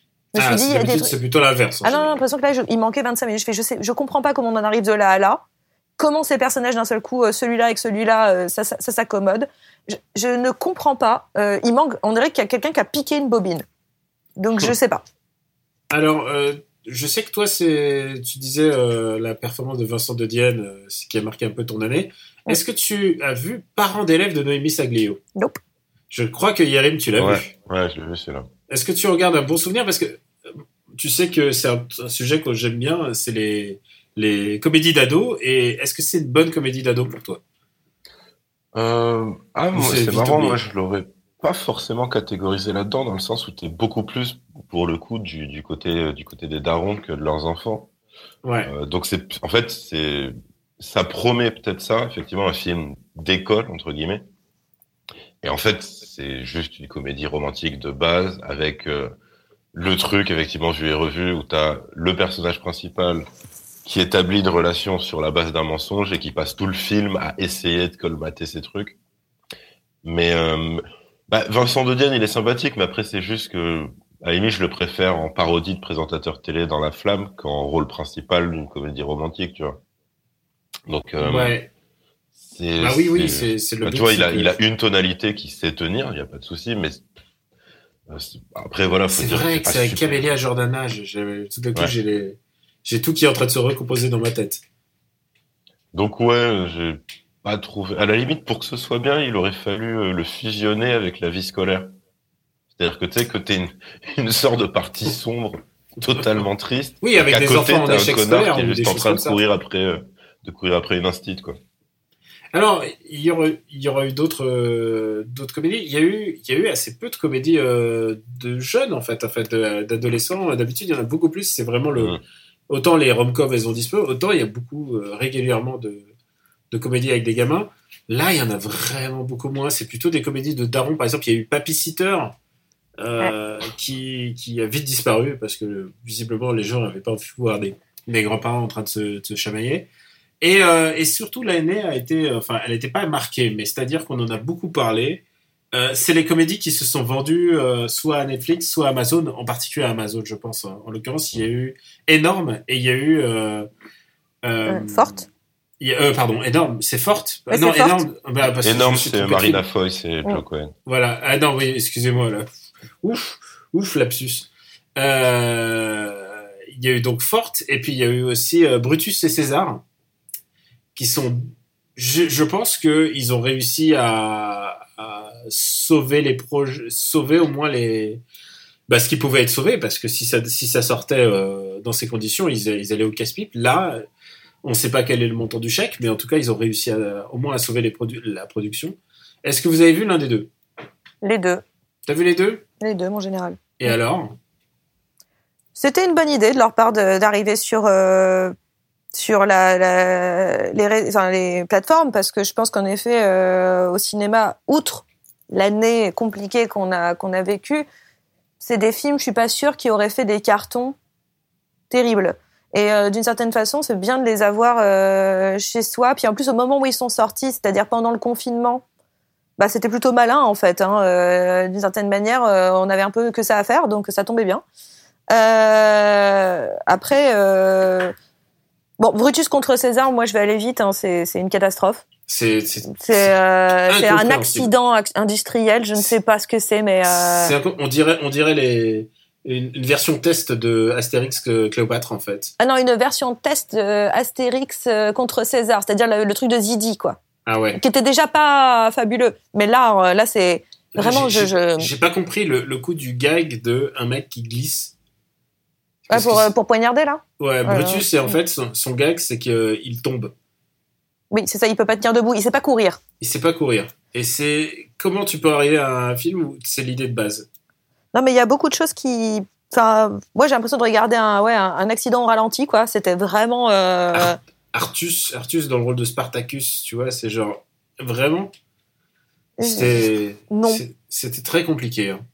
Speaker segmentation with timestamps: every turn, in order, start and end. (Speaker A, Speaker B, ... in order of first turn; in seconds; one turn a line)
Speaker A: 0.3-1.1
Speaker B: 0.4-2.2
Speaker A: 1.8-5.4
Speaker A: 6.0-13.6
Speaker A: 14.4-15.0
Speaker B: 15.9-25.2
Speaker B: 26.1-27.5
Speaker C: 27.2-28.5
Speaker B: 28.7-30.2
Speaker B: 31.0-37.4
Speaker C: 38.7-47.9
Speaker B: 39.7-40.6
Speaker B: 48.4-48.7
Speaker C: 48.6-54.2
Speaker C: 55.4-59.1
Speaker C: 59.7-63.3
Speaker C: 63.9-69.0
Speaker C: 70.0-79.8
Speaker C: 80.9-81.6
Speaker B: 81.2-81.7
Speaker C: 82.3-87.0
Speaker B: 82.8-84.5
Speaker C: 88.1-90.3
Speaker B: 89.1-94.6
Speaker C: 95.9-101.9
Speaker C: 102.7-111.6
Speaker B: 107.0-109.4
Speaker B: 112.5-122.2
Speaker C: 122.0-122.2
Speaker B: 122.7-126.1
Speaker B: 126.7-132.3
Speaker B: 133.0-139.9
Speaker B: 140.4-153.7
Speaker B: 154.4-155.2
Speaker A: 154.7-155.2
Speaker B: 155.8-159.6
Speaker A: 157.5-158.0
Speaker C: 158.6-160.7
Speaker B: 160.9-162.5
Speaker B: 163.0-169.8
Speaker B: 170.9-178.2
Speaker B: 178.9-184.0
Speaker B: 184.6-190.5
Speaker A: 191.2-191.6
Speaker B: 192.1-192.6
Speaker A: 192.8-193.9
Speaker B: 193.8-194.4
Speaker A: 195.8-198.5
Speaker A: 199.1-207.9
Speaker A: 208.6-210.9
Speaker A: 211.9-218.8
Speaker A: 219.6-224.6
Speaker A: 225.3-228.1
Speaker A: 229.0-232.1
Speaker B: 232.3-233.3
Speaker A: 232.9-237.5
Speaker B: 233.9-234.7
Speaker B: 237.1-242.5
Speaker A: 242.6-247.2
Speaker B: 247.4-247.8
Speaker A: 247.8-251.9
Speaker B: 250.9-254.9
Speaker B: 256.1-256.5
Speaker A: 256.1-258.3
Speaker B: 257.4-260.3
Speaker A: 261.3-263.0
Speaker B: 263.2-267.4
Speaker A: 268.1-274.4
Speaker B: 274.1-278.5
Speaker A: 279.6-279.9
Speaker B: 279.6-282.2
Speaker A: 280.5-280.8